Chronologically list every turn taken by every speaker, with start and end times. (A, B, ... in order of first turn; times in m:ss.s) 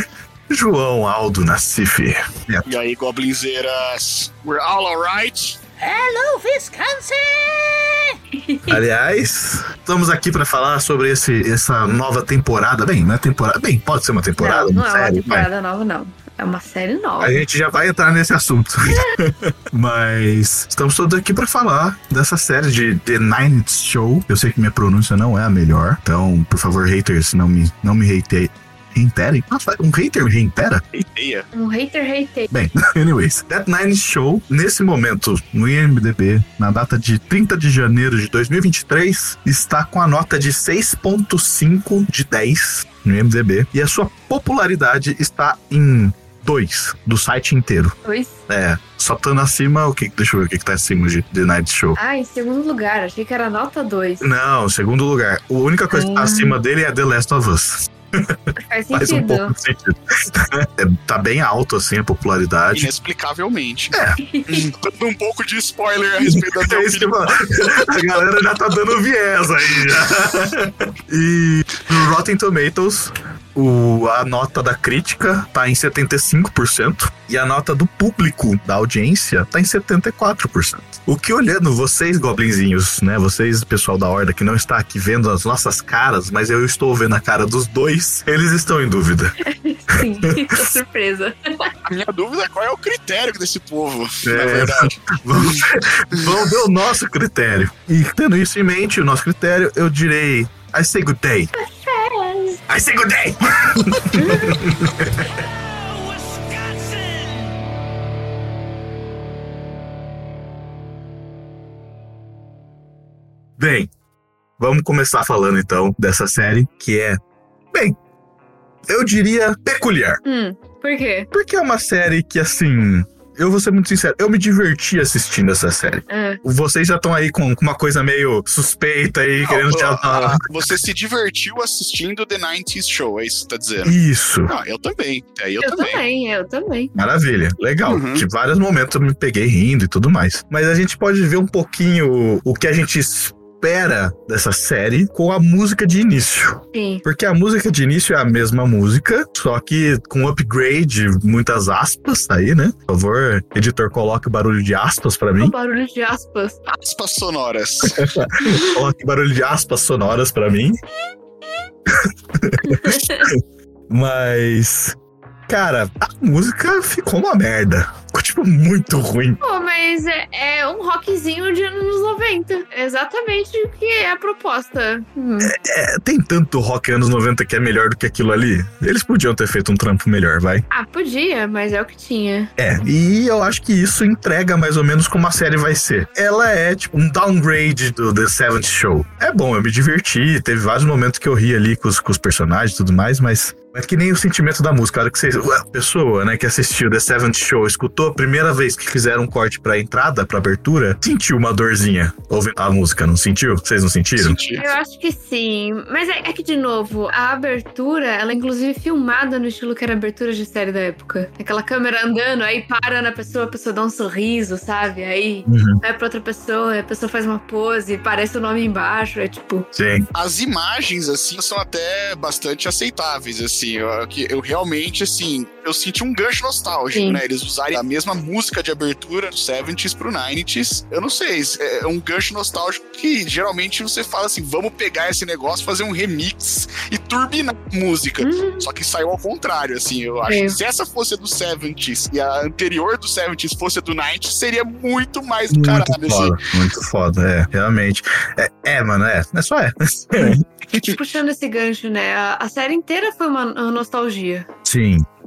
0:00.5-0:02.6 A
0:02.6-0:05.6 B
0:05.8-0:08.1 C
0:08.3-0:08.8 D
0:08.7-0:15.5 A
0:14.4-0:17.4 D
0:17.2-0:30.8 A
0:30.9-0:31.5 B
0:31.5-0:32.5 D
0:32.5-0:48.0 A
0:48.0-0:48.4 D
0:48.5-0:52.0 A
0:52.0-0:54.2 D
0:54.2-0:58.4 A
0:55.9-0:56.6 D
0:58.6-0:59.5 D
0:58.9-1:02.9 A
1:02.7-1:03.9 B
1:03.9-1:04.2 A
1:04.2-1:04.7 D
1:04.5-1:08.0 B
1:06.2-1:29.3 A
1:29.4-1:31.7 D
1:30.0-1:30.8 A
1:31.8-1:36.5 B
1:34.2-1:41.5 A
1:41.5-1:42.6 D
1:42.7-1:45.3 A
1:44.2-1:44.5 D
1:53.6-1:53.9 A
1:54.6-1:57.2 A
1:57.7-1:58.0 A
1:58.9-2:00.2 A
2:00.2-2:01.3 D
2:01.3-2:10.4 A
2:06.1-2:06.4 D
2:09.4-2:13.9 B
2:13.8-2:14.5 A
2:14.5-2:16.0 B
2:15.6-2:16.9 D
2:16.9-2:35.5 A
2:17.8-2:18.2 B
2:26.7-2:27.0 D
2:35.4-2:36.6 D
2:36.7-2:38.0 B
2:37.8-2:40.8 A
2:38.4-2:38.8 D
2:41.9-2:45.0 A
2:42.6-2:43.3 D
2:45.5-2:49.4 A
2:49.4-2:55.5 D
2:55.4-3:00.6 A
3:00.7-3:02.5 D
3:02.6-3:24.4 A
3:24.2-3:24.7 B
3:24.6-3:39.7 D
3:35.5-3:35.8 A
3:39.7-3:40.0 A
3:40.1-4:06.4 B
3:46.9-3:47.2 D
3:58.2-3:58.6 D
4:00.3-4:00.6 D
4:05.5-4:10.4 A
4:10.7-4:14.5 D
4:14.6-4:15.0 A